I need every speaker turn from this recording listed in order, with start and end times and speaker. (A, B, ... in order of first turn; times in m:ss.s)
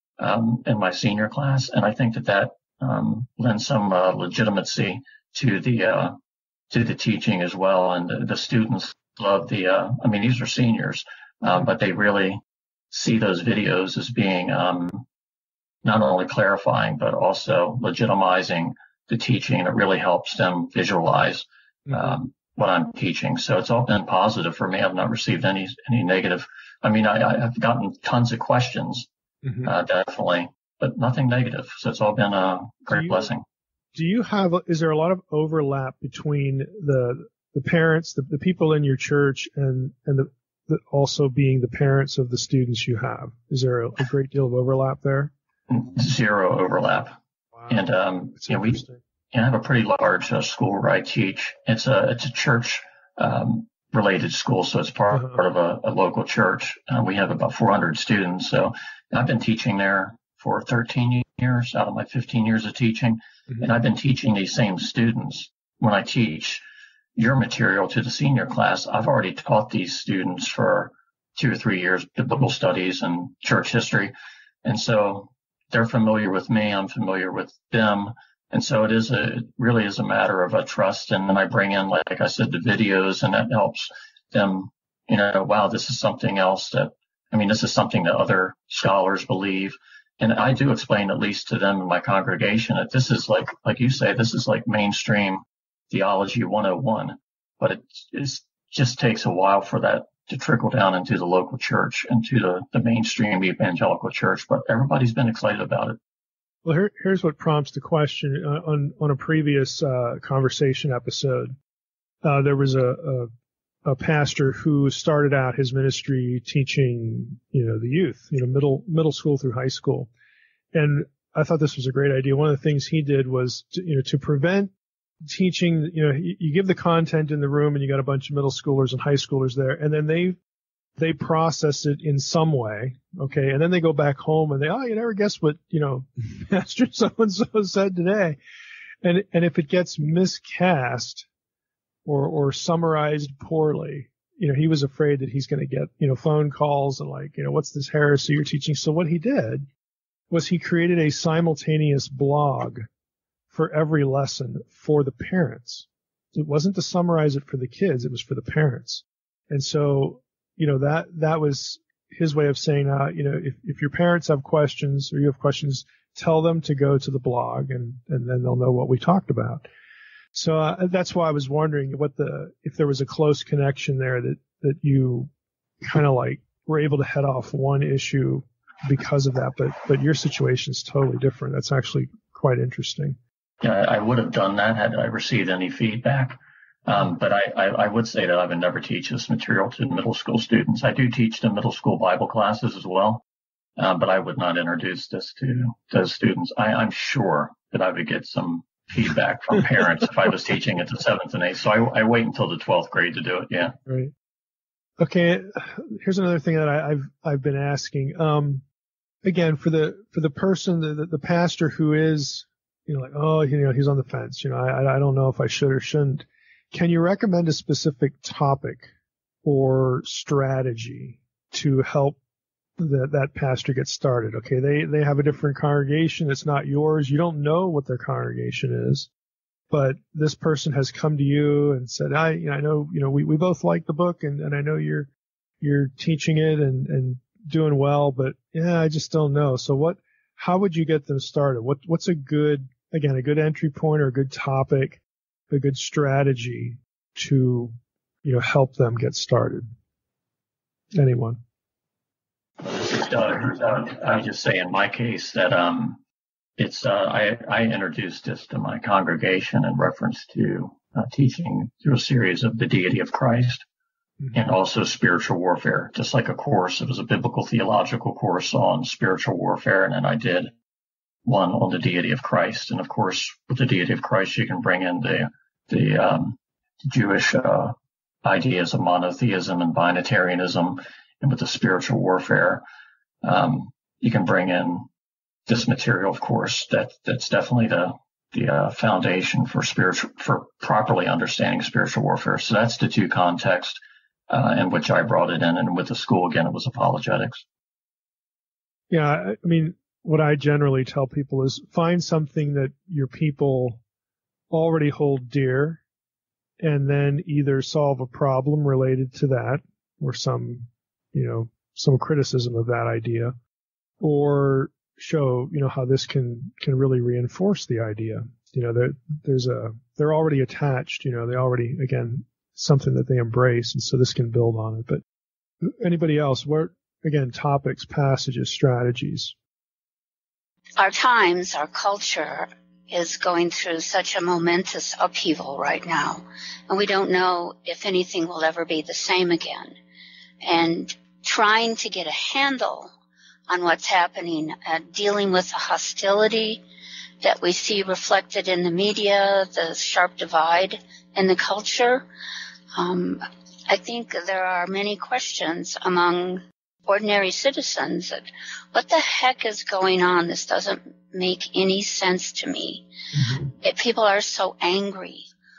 0:00.2-0:06.2 A
0:06.7-0:15.0 A
0:15.8-0:29.1 A
0:21.9-0:22.2 B
0:29.4-0:29.7 B
0:29.6-0:33.4 A
0:32.9-0:33.3 B
0:33.9-0:45.3 B
0:45.7-0:47.2 A
0:47.5-0:47.8 B
0:47.7-0:48.8 A
0:48.4-0:49.0 B
0:49.3-1:06.6 A
0:55.1-0:55.4 B
1:07.2-1:46.0 A
1:46.6-1:51.5 B
1:52.2-1:53.3 B
1:53.8-2:00.1 B
2:00.7-2:04.7 B
2:05.2-2:10.4 B
2:11.0-2:18.4 B
2:19.0-2:21.2 B
2:22.0-2:29.7 B
2:30.3-2:32.8 B
2:33.5-2:49.7 B
2:50.3-2:55.3 B
2:55.8-3:03.2 B
3:03.6-3:13.2 A
3:13.8-3:23.8 A
3:23.9-3:24.1 B
3:25.0-3:28.6 B
3:29.2-3:38.9 B
3:39.4-3:42.2 B
3:42.8-3:49.1 B
3:49.7-3:55.1 B
3:55.6-4:09.7 B
4:10.9-4:11.4 B
4:12.6-4:16.0 A
4:16.6-4:23.6 A
4:24.3-4:30.5 A
4:31.2-4:42.6 A
4:43.2-4:44.9 A
4:45.5-4:57.4 A
4:58.9-5:03.8 B
5:04.5-5:05.8 B
5:06.6-5:13.4 B
5:14.0-5:25.0 B
5:25.6-5:29.3 B
5:30.8-5:39.8 C
5:40.4-5:42.9 C
5:43.5-5:46.6 C
5:47.2-5:52.1 C
5:52.8-6:02.9 C
6:03.2-6:03.5 B
6:03.6-6:05.3 C